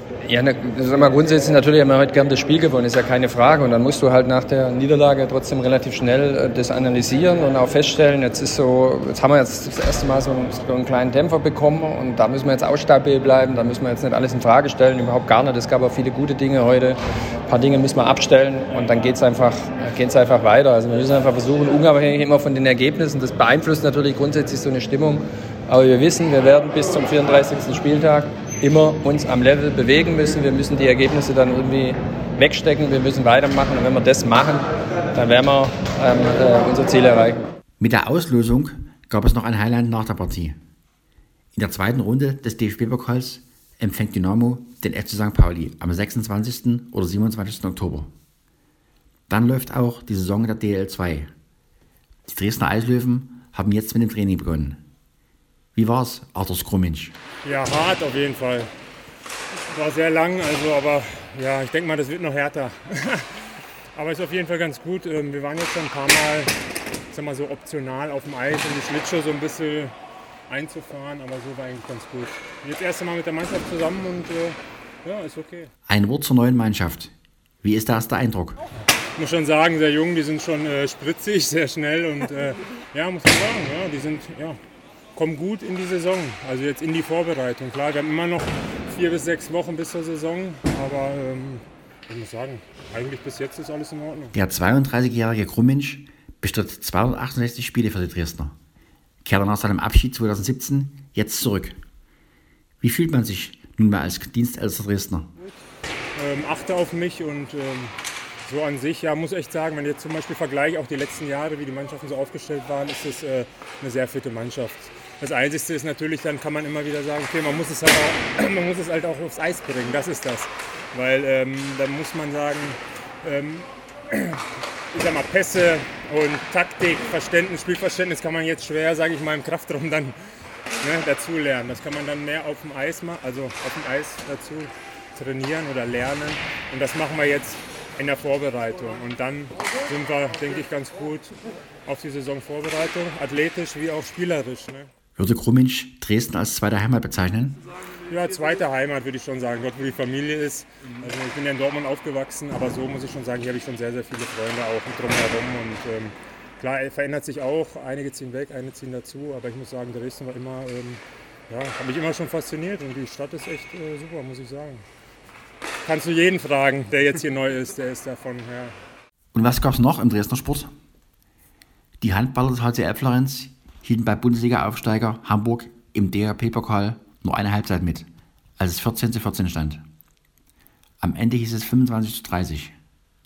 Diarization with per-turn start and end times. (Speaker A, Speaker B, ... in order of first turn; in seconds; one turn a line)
Speaker A: 0.3-37.5
Speaker B: 37.8-40.6
Speaker B: 41.5-48.1
Speaker B: 49.3-51.3
Speaker B: 52.3-54.8
Speaker B: 55.8-57.1
Speaker C: 57.5-58.7
Speaker C: 59.7-63.2
Speaker C: 64.0-66.5
Speaker C: 67.1-69.9
Speaker C: 70.5-75.7
Speaker B: 75.9-78.6
Speaker C: 79.2-84.6
Speaker C: 85.2-94.3
Speaker B: 94.3-98.5
Speaker B: 99.2-101.8
Speaker B: 102.8-105.3
Speaker C: 106.2-107.9
Speaker C: 108.4-123.7
Speaker C: 124.9-130.2
Speaker C: 130.8-141.3
Speaker C: 141.9-144.9
Speaker B: 145.2-147.6
Speaker C: 148.1-164.8
Speaker C: 165.8-168.7
Speaker B: 169.3-170.7
Speaker B: 172.0-178.1
Speaker B: 178.6-179.8
Speaker B: 181.0-182.7